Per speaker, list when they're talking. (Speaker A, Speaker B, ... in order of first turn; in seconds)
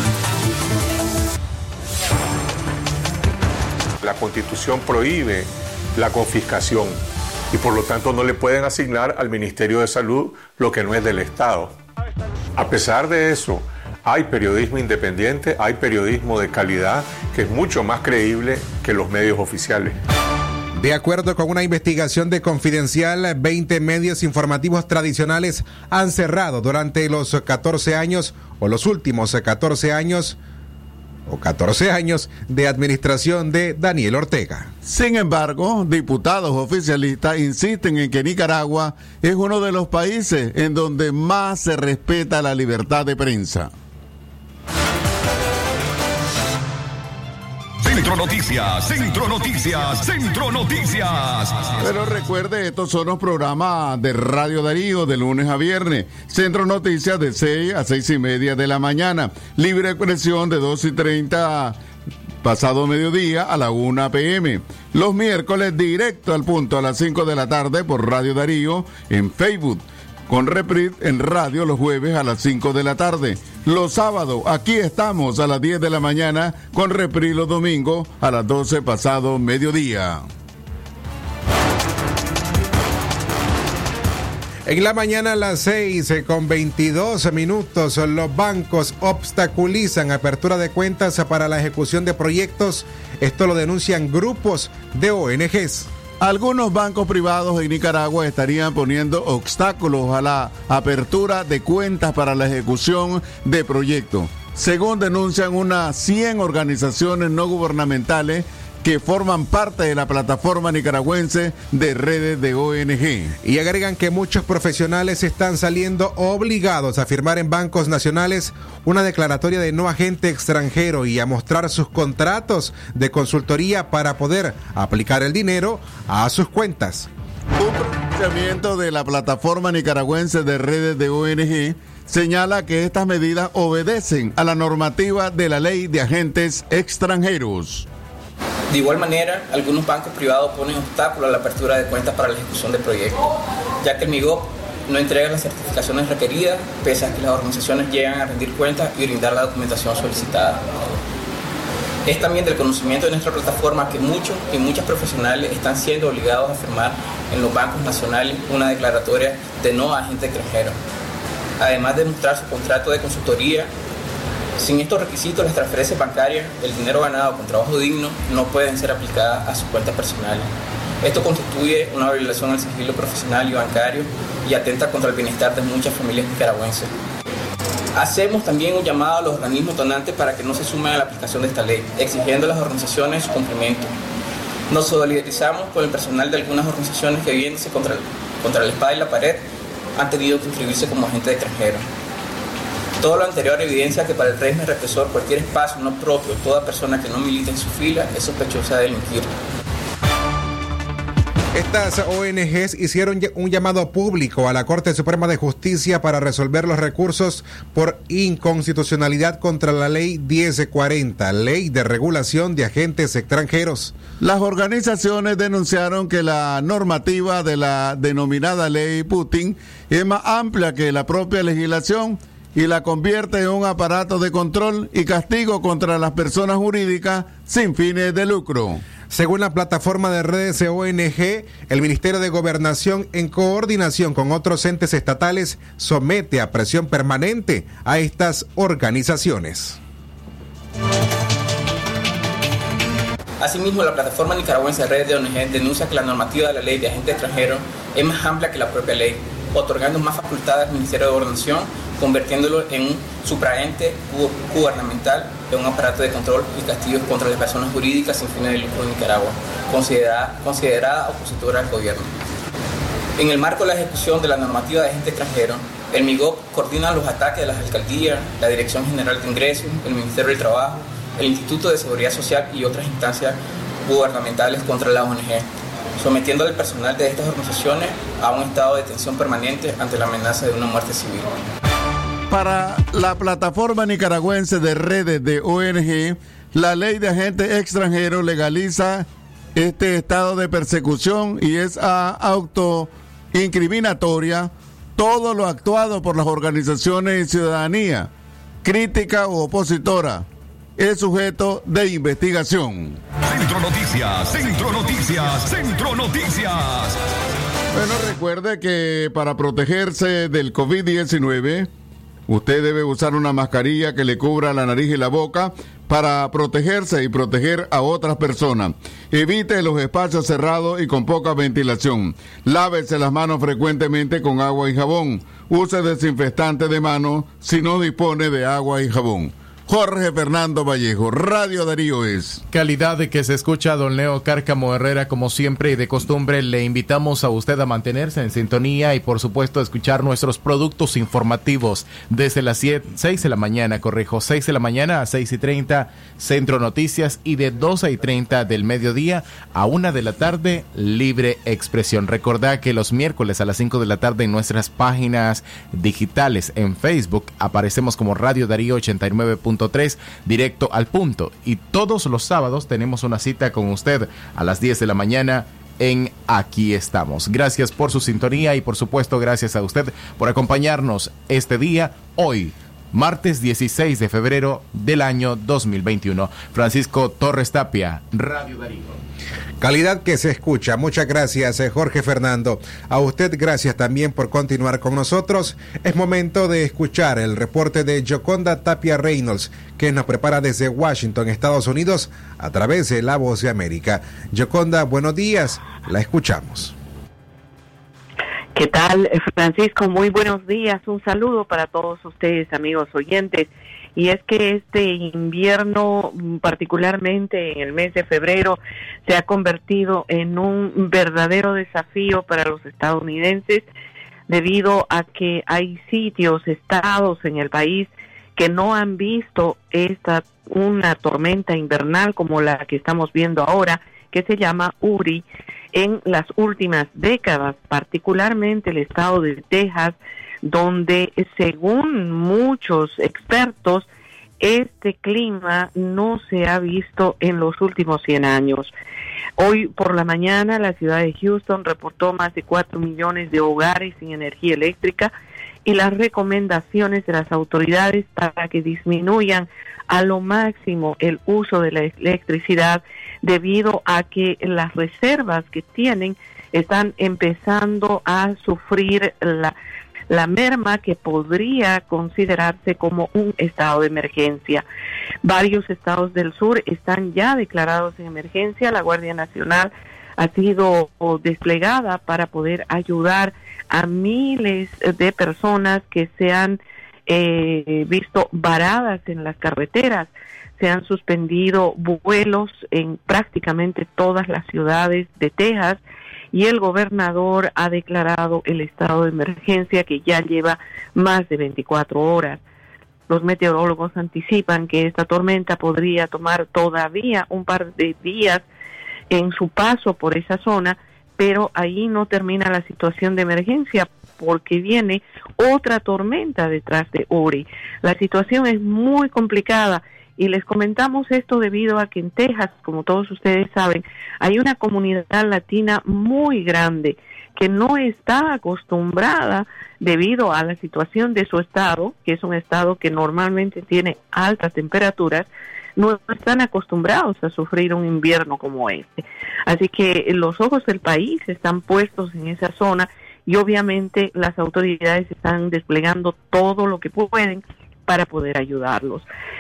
Speaker A: 4.0-11.8, 12.6-20.0
Speaker B: 20.8-30.4, 31.3-34.7, 84.7-95.9, 113.4-127.1, 201.5-213.9, 229.1-239.8, 379.6-396.7
Speaker C: 34.8-43.7, 51.8-61.8, 62.4-80.2, 96.2-113.4, 127.5-137.8, 214.2-228.8, 282.3-298.1, 298.6-300.2, 300.8-303.0, 307.7-311.7, 312.3-332.4
Speaker D: 47.8-51.8, 303.2-307.0
Speaker E: 138.7-151.0, 152.1-160.8, 161.6-163.7, 164.6-170.5, 171.0-176.9, 177.9-183.9, 184.7-189.4, 190.0-191.8, 193.0-199.3, 243.4-262.1, 263.2-275.4, 276.0-281.4
Speaker F: 332.5-379.0
Speaker G: 398.6-413.6, 414.3-433.9, 434.4-438.7, 439.4-445.1, 445.6-459.5, 460.1-464.6, 465.2-485.8, 486.3-492.4, 493.1-498.4, 499.1-539.0